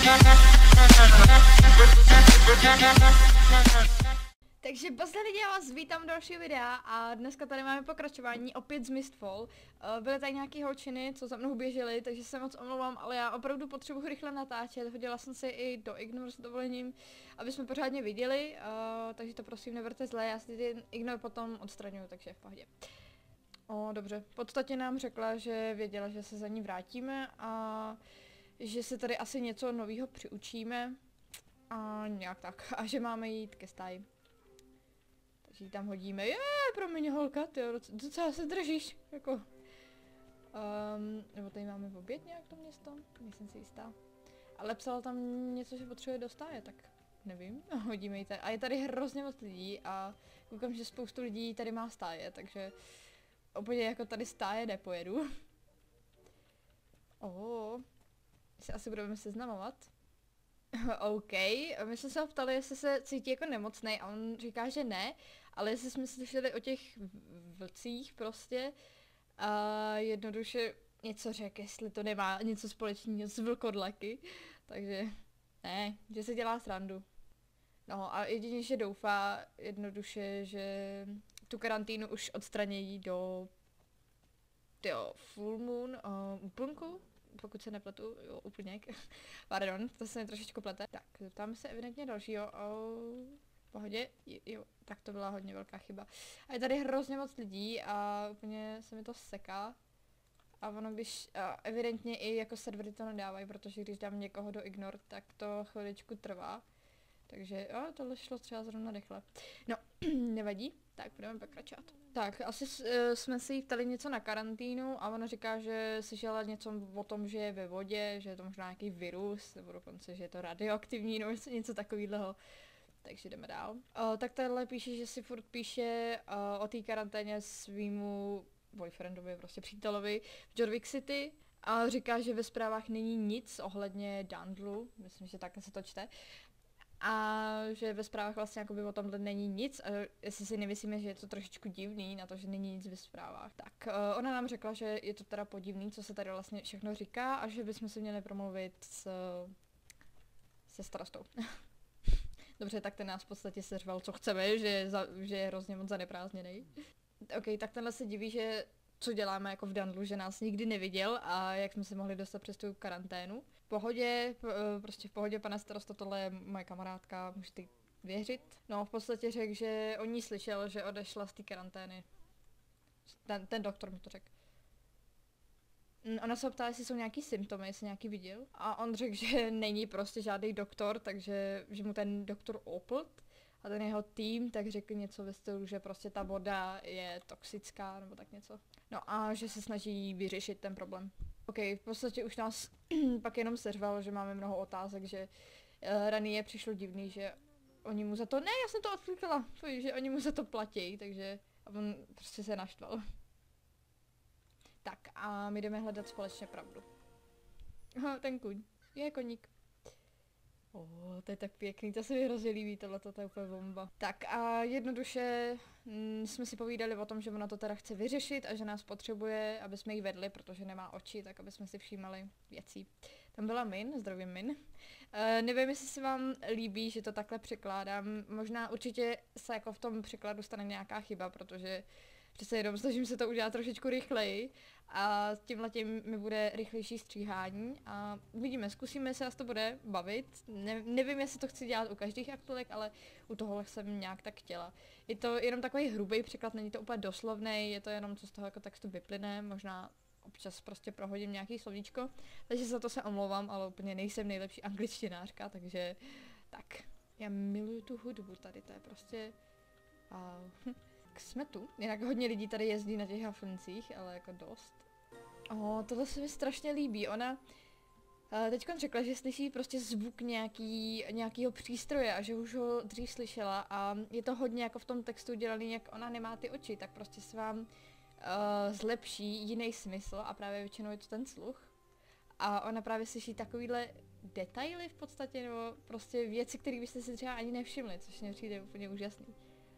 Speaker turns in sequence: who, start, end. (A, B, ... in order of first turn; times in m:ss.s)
0:04.6-0:22.7 A
0:23.7-0:28.0 A
0:28.6-0:31.0 A
0:31.7-0:34.0 A
0:35.4-0:39.5 A
0:40.5-0:43.9 A
0:44.6-0:52.7 A
0:53.5-0:55.3 A
0:57.2-0:57.8 A
0:58.6-0:59.9 A
1:00.7-1:08.7 A
1:09.4-1:17.0 A
1:17.9-1:23.5 A
1:24.8-1:28.9 A
1:29.5-1:39.8 A
1:40.6-1:46.6 A
1:47.3-2:02.4 A
2:03.0-2:16.1 A
2:17.0-2:29.5 A
2:30.7-2:36.7 A
2:37.3-2:52.0 A
2:53.1-2:54.3 A
2:56.0-3:15.3 A
3:15.8-3:23.0 A
3:24.8-3:26.9 A
3:28.0-3:29.5 A
3:30.7-3:44.6 A
3:45.1-3:51.8 A
3:52.4-4:19.3 A
4:20.1-4:24.8 A
4:25.5-4:27.4 A
4:28.3-4:37.7 A
4:38.2-4:41.7 A
4:42.4-4:49.4 A